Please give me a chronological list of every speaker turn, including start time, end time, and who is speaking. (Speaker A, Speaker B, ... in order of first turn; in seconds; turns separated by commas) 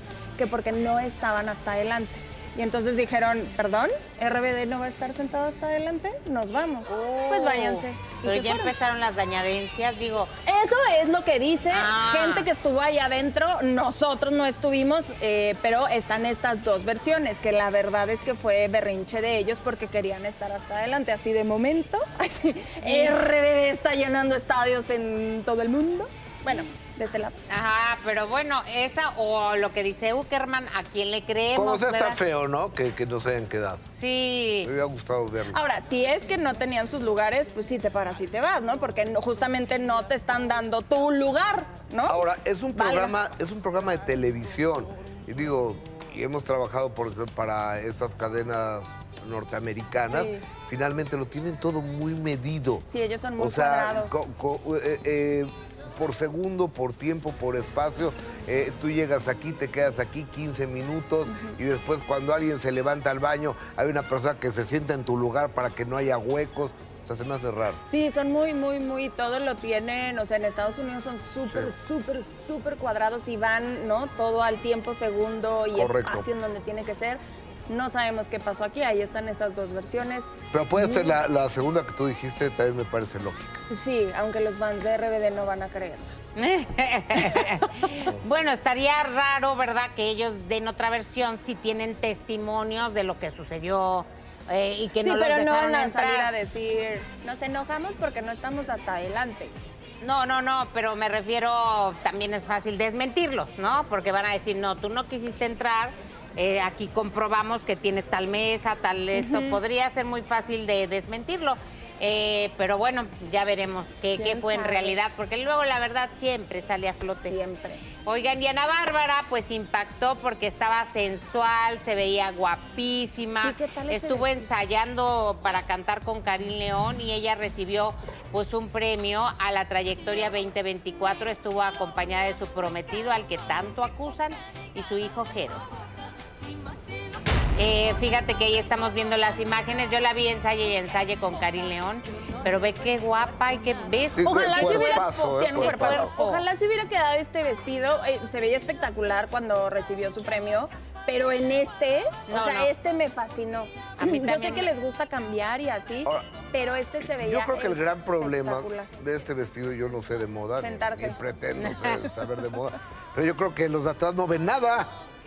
Speaker A: 0.4-8.7, Speaker B: 6.9-10.3, Speaker A: 10.4-27.3, Speaker B: 11.7-12.5, Speaker B: 22.8-23.1, Speaker B: 27.5-32.2, Speaker C: 31.5-33.8, Speaker B: 33.9-34.7, Speaker C: 34.6-35.6, Speaker A: 35.5-43.1, Speaker C: 42.1-52.8, Speaker A: 50.1-50.4, Speaker A: 52.9-54.2, Speaker C: 53.4-67.8, Speaker A: 61.3-61.5, Speaker A: 67.9-81.1, Speaker C: 75.7-76.3, Speaker C: 80.5-83.6, Speaker A: 83.7-86.1, Speaker B: 86.3-96.3, Speaker A: 95.0-99.5, Speaker B: 100.0-117.4, Speaker A: 109.1-109.6, Speaker A: 114.2-115.0, Speaker A: 117.3-117.9, Speaker B: 118.0-135.7, Speaker A: 123.4-124.5, Speaker B: 137.6-145.0, Speaker C: 144.2-146.1, Speaker A: 144.2-158.9, Speaker B: 145.5-146.4, Speaker B: 152.3-152.7, Speaker B: 154.0-154.7, Speaker C: 157.1-164.9, Speaker A: 160.6-161.2, Speaker B: 161.6-162.1